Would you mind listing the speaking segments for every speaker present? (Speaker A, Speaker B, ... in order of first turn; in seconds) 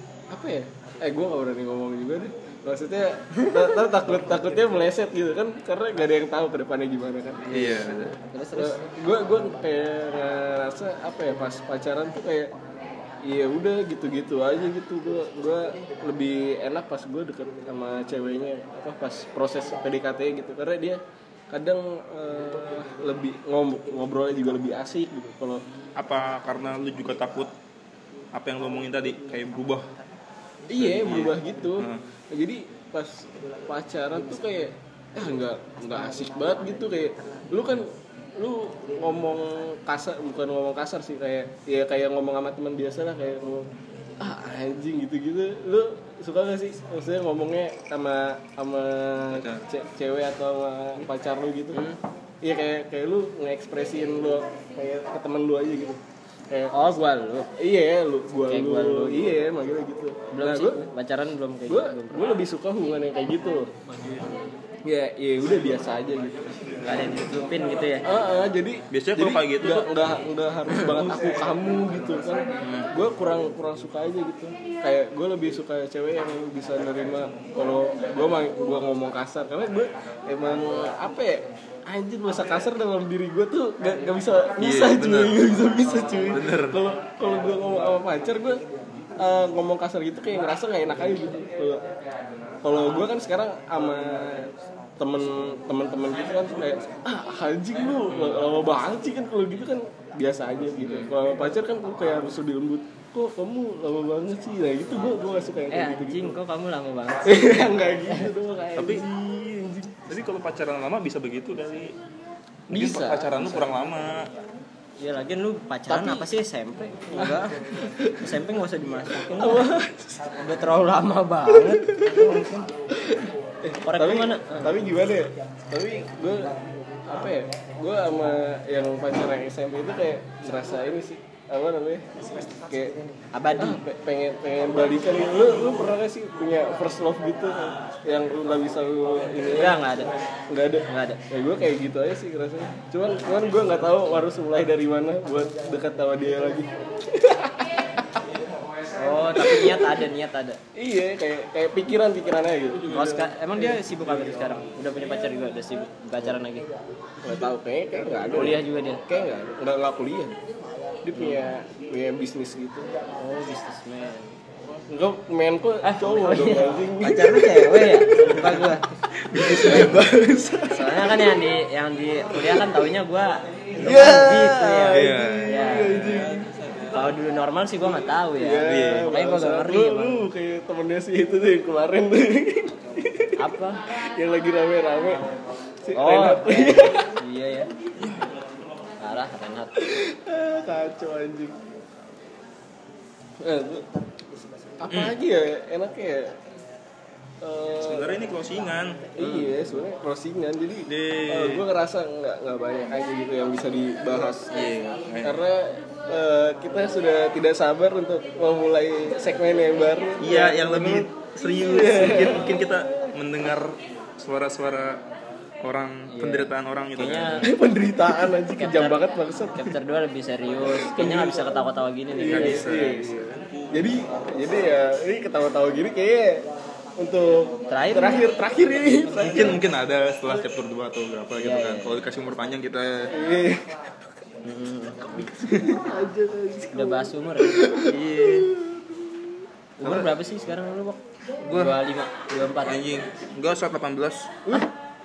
Speaker A: 0.3-7.9, 8.5-12.5, 13.2-21.0, 21.5-25.6, 30.7-43.7, 44.2-51.8, 52.4-56.7, 57.5-60.8, 61.7-63.7, 64.8-66.5, 68.0-88.6, 89.2-91.8, 92.6-106.4, 107.2-109.1, 112.7-113.7, 115.9-116.3, 117.1-118.3, 119.2-120.4, 121.6-122.4, 123.0-133.0, 133.6-139.9, 140.5-148.2, 149.3-150.1, 150.7-153.8, 157.2-160.3, 161.0-162.9, 164.9-171.4, 173.8-176.5, 178.3-185.3, 185.8-187.1, 189.8-191.6, 193.4-193.8, 194.8-196.4, 197.4-198.2, 199.1-204.7, 205.2-212.7, 217.4-219.7, 220.6-221.6, 222.1-226.5, 227.0-229.6, 233.1-233.8, 235.0-239.4
Speaker B: 7.5-8.2, 26.0-27.5, 28.3-29.9, 30.7-32.0, 49.3-49.6, 68.9-69.9, 72.6-72.9, 84.6-85.4, 86.3-86.8, 100.8-101.1, 108.8-111.9, 112.7-114.3, 169.5-169.8, 174.9-176.3, 178.6-179.1, 187.9-188.3, 194.9-195.2, 197.8-199.1, 200.9-201.6, 204.5-205.4, 210.2-215.0, 215.6-217.5, 222.2-223.5, 229.2-233.1, 235.5-235.8, 237.8-238.5, 239.8-240.2, 241.4-241.8, 242.6-244.4
Speaker C: 8.3-8.8, 51.7-52.0, 56.7-57.5, 58.5-59.4, 60.3-62.3, 66.8-68.1, 105.7-108.2, 115.0-119.7, 120.3-122.7, 123.8-124.8, 133.3-133.8, 139.4-140.1, 140.9-141.2, 148.9-150.6, 152.9-156.7, 158.3-159.0, 161.1-161.4, 163.2-164.3, 165.8-170.0, 170.7-176.1, 176.9-180.3, 183.4-183.8, 185.9-187.7, 189.0-189.8, 199.2-199.5, 216.1-217.5, 218.5-219.0, 219.5-222.8, 227.7-228.2, 231.3-232.1, 234.4-235.3, 236.7-237.7, 239.8-242.9